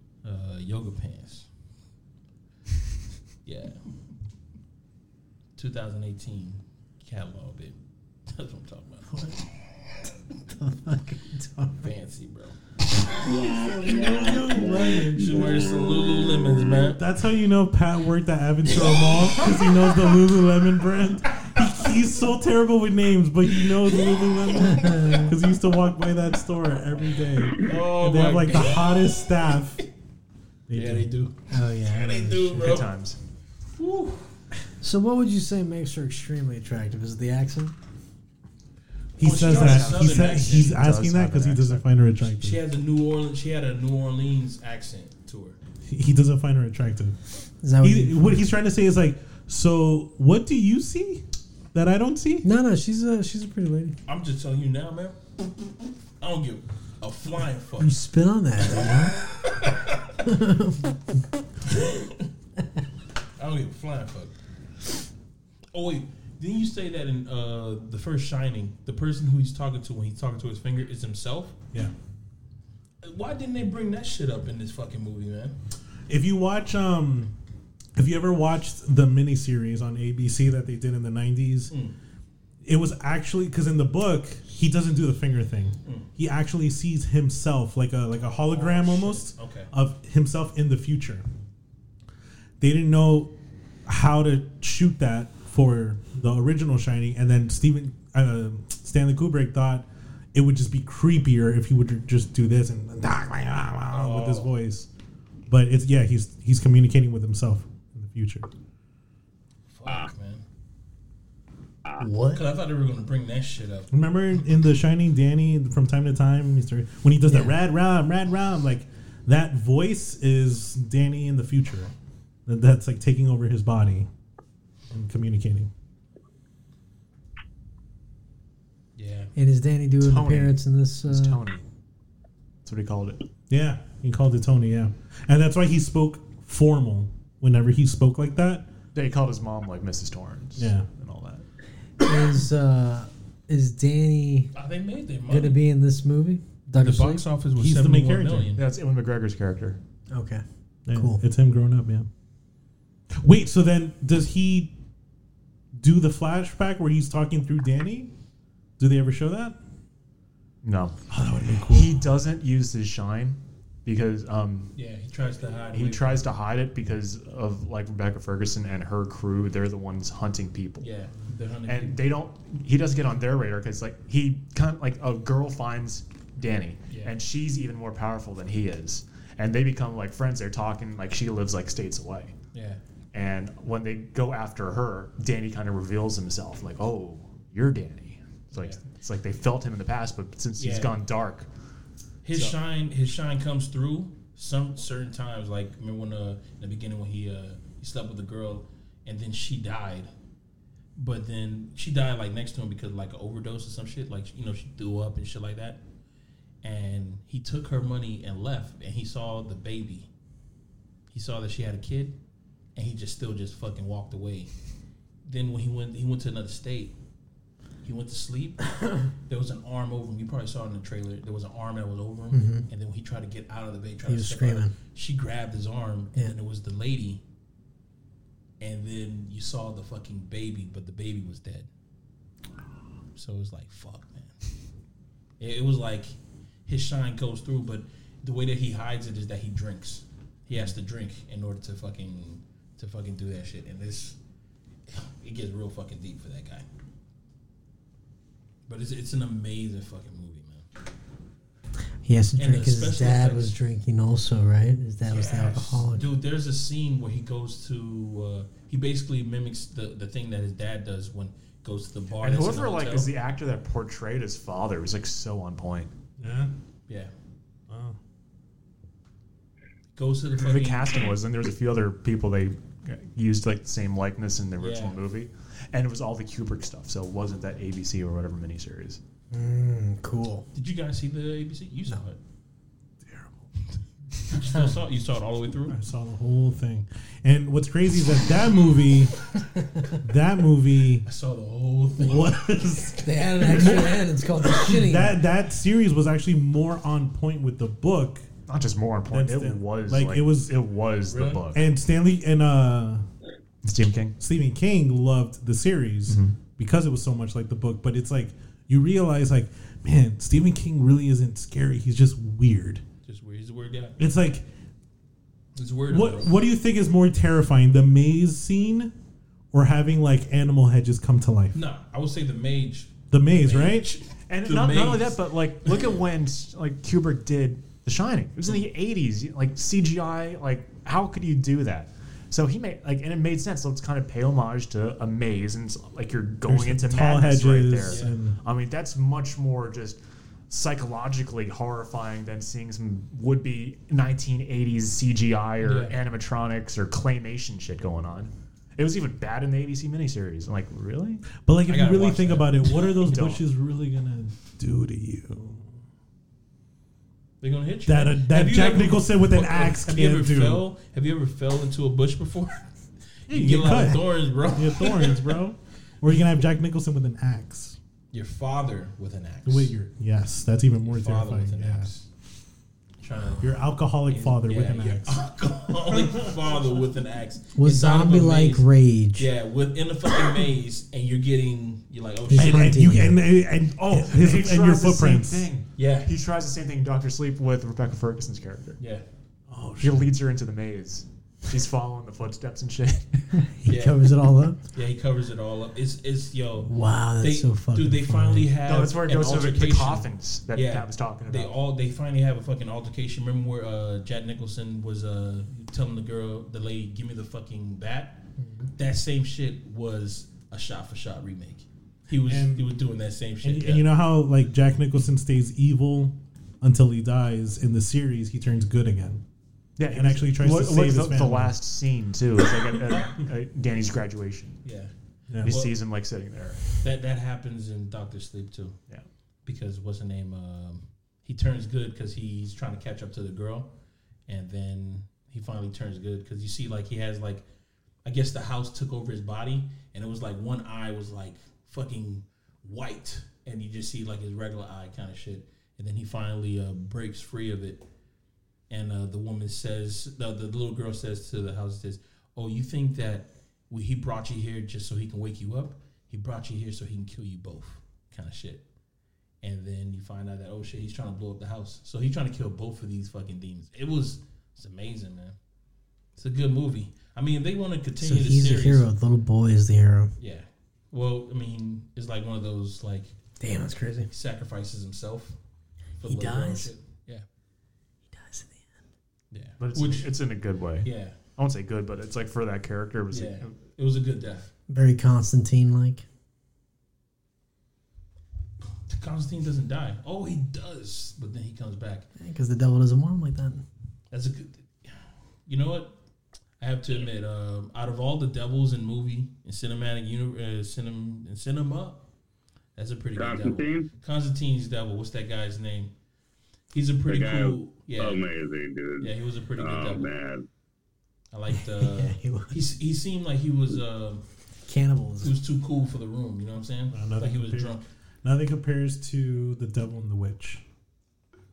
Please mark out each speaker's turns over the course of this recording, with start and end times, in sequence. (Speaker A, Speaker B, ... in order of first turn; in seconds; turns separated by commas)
Speaker A: 0.2-1.5, Speaker A: 3.4-3.9, Speaker A: 5.6-9.3, Speaker B: 9.1-9.4, Speaker B: 10.5-11.9, Speaker A: 11.8-12.6, Speaker C: 13.3-14.9, Speaker D: 13.3-15.4, Speaker B: 14.0-15.0, Speaker A: 15.1-17.0, Speaker D: 16.9-29.8, Speaker A: 24.1-25.1, Speaker B: 24.6-25.3, Speaker A: 27.6-29.2, Speaker D: 30.7-31.1, Speaker A: 30.7-32.9, Speaker B: 31.5-32.8, Speaker E: 32.5-33.2, Speaker A: 33.8-34.2, Speaker B: 34.8-37.8, Speaker A: 39.2-40.8, Speaker D: 39.2-42.6, Speaker E: 39.2-41.8, Speaker A: 42.3-45.6, Speaker D: 45.9-47.2, Speaker B: 47.6-48.4, Speaker D: 47.8-52.5, Speaker B: 52.4-54.0, Speaker A: 54.0-55.2, Speaker A: 56.2-58.0, Speaker B: 57.8-59.1, Speaker A: 58.7-60.2, Speaker B: 60.2-61.2, Speaker A: 61.7-62.3, Speaker A: 63.4-64.3, Speaker A: 65.7-71.5, Speaker A: 73.0-75.5, Speaker D: 76.1-77.3, Speaker D: 78.0-81.7, Speaker A: 81.7-82.0, Speaker D: 82.6-91.2, Speaker A: 85.8-86.1, Speaker A: 88.5-89.7, Speaker D: 92.6-93.3, Speaker D: 93.8-104.9, Speaker A: 103.9-104.5, Speaker D: 105.5-108.5, Speaker A: 109.7-110.4, Speaker B: 112.0-112.4, Speaker A: 112.3-113.9, Speaker D: 113.9-121.9, Speaker B: 117.2-117.6, Speaker D: 122.5-124.1, Speaker D: 124.9-125.7, Speaker A: 128.9-129.3, Speaker B: 129.3-131.4, Speaker E: 130.0-130.5, Speaker E: 131.1-131.6, Speaker E: 132.6-133.2, Speaker D: 133.5-138.7, Speaker E: 138.9-141.4, Speaker D: 140.6-140.8, Speaker B: 142.0-144.5, Speaker A: 144.5-145.6, Speaker B: 145.3-147.2, Speaker A: 146.8-148.6, Speaker D: 147.6-148.5, Speaker E: 148.6-149.8, Speaker B: 150.1-151.2, Speaker D: 150.8-152.1, Speaker D: 153.1-154.7, Speaker D: 155.8-158.1, Speaker D: 158.8-159.6, Speaker E: 160.6-161.0, Speaker D: 161.1-162.0, Speaker E: 161.7-164.7, Speaker A: 164.7-166.3, Speaker E: 165.7-170.9, Speaker A: 170.8-172.0, Speaker E: 171.7-182.3, Speaker A: 176.9-177.2, Speaker A: 182.5-182.8, Speaker E: 183.1-191.5, Speaker A: 188.5-188.8, Speaker A: 190.6-191.0, Speaker A: 192.2-200.1, Speaker A: 200.9-205.8, Speaker A: 206.6-210.1, Speaker A: 211.1-212.2, Speaker A: 212.8-214.5, Speaker A: 215.2-216.9, Speaker A: 217.8-227.2, Speaker B: 222.3-222.7, Speaker B: 224.1-224.7, Speaker A: 228.6-231.7, Speaker A: 233.1-234.3, Speaker A: 235.4-244.2, Speaker A: 244.9-246.7, Speaker A: 248.7-250.7, Speaker B: 252.0-256.1, Speaker A: 252.3-253.6, Speaker A: 255.0-263.1, Speaker E: 262.2-265.9, Speaker D: 266.2-266.5, Speaker D: 267.7-268.0, Speaker A: 269.9-271.0, Speaker E: 270.4-279.0, Speaker A: 274.6-275.0, Speaker B: 279.3-280.4, Speaker A: 280.5-282.2, Speaker D: 283.0-283.3, Speaker A: 284.3-285.8, Speaker D: 285.7-291.0, Speaker A: 291.0-292.5, Speaker D: 292.0-298.2, Speaker B: 293.0-295.2, Speaker E: 298.5-301.6, Speaker D: 299.1-300.5, Speaker A: 301.1-301.4, Speaker D: 301.5-303.0, Speaker E: 303.6-304.1, Speaker D: 304.2-312.8, Speaker E: 306.1-306.4, Speaker A: 313.0-314.1, Speaker D: 314.0-314.5, Speaker A: 315.6-316.4, Speaker D: 315.9-318.9, Speaker D: 319.5-321.5, Speaker A: 321.5-325.9, Speaker D: 323.1-323.9, Speaker E: 324.3-340.0, Speaker D: 336.5-338.4, Speaker A: 337.8-338.2, Speaker E: 340.5-351.3, Speaker A: 345.6-345.9, Speaker D: 351.4-355.7, Speaker A: 351.7-352.9, Speaker E: 353.0-353.4, Speaker A: 357.4-362.7, Speaker D: 357.9-360.6, Speaker A: 363.2-365.4, Speaker D: 363.3-367.8, Speaker A: 368.1-369.7, Speaker D: 369.4-371.9, Speaker A: 370.8-372.1, Speaker A: 373.0-373.5, Speaker D: 373.4-375.2, Speaker A: 374.1-382.9, Speaker B: 377.5-379.3, Speaker B: 382.3-383.2, Speaker D: 382.4-385.5, Speaker E: 383.8-388.8, Speaker A: 385.8-386.1, Speaker A: 388.8-389.0, Speaker D: 389.5-390.1, Speaker E: 389.8-393.4, Speaker B: 393.4-394.6, Speaker A: 393.7-394.1, Speaker A: 394.7-413.9, Speaker B: 396.6-398.5, Speaker E: 398.6-401.6, Speaker B: 408.4-408.7, Speaker D: 412.3-412.6, Speaker D: 413.4-419.2, Speaker E: 419.8-424.6, Speaker D: 419.9-421.5, Speaker A: 424.6-425.7, Speaker D: 425.3-425.5, Speaker E: 425.4-426.6, Speaker A: 426.8-428.8, Speaker A: 429.4-433.7, Speaker A: 434.3-437.4, Speaker A: 438.0-447.9, Speaker A: 448.7-458.6, Speaker A: 459.4-465.4, Speaker A: 466.1-468.9, Speaker B: 468.0-470.1, Speaker A: 470.2-473.1, Speaker B: 473.4-474.1, Speaker A: 474.1-475.4, Speaker A: 476.0-477.2, Speaker B: 476.0-476.7, Speaker B: 478.1-478.6, Speaker A: 479.3-480.1, Speaker E: 479.6-483.5, Speaker A: 480.8-481.2, Speaker A: 483.1-484.5, Speaker B: 484.7-486.0, Speaker A: 488.9-492.1, Speaker B: 492.2-493.6, Speaker A: 494.1-496.0, Speaker A: 496.6-502.1, Speaker A: 502.8-505.9, Speaker C: 503.1-503.9, Speaker A: 506.7-508.2, Speaker C: 507.1-510.4, Speaker A: 509.0-510.1, Speaker A: 511.3-514.2, Speaker B: 511.5-512.5, Speaker B: 514.6-515.3, Speaker A: 515.2-517.9, Speaker D: 516.9-520.6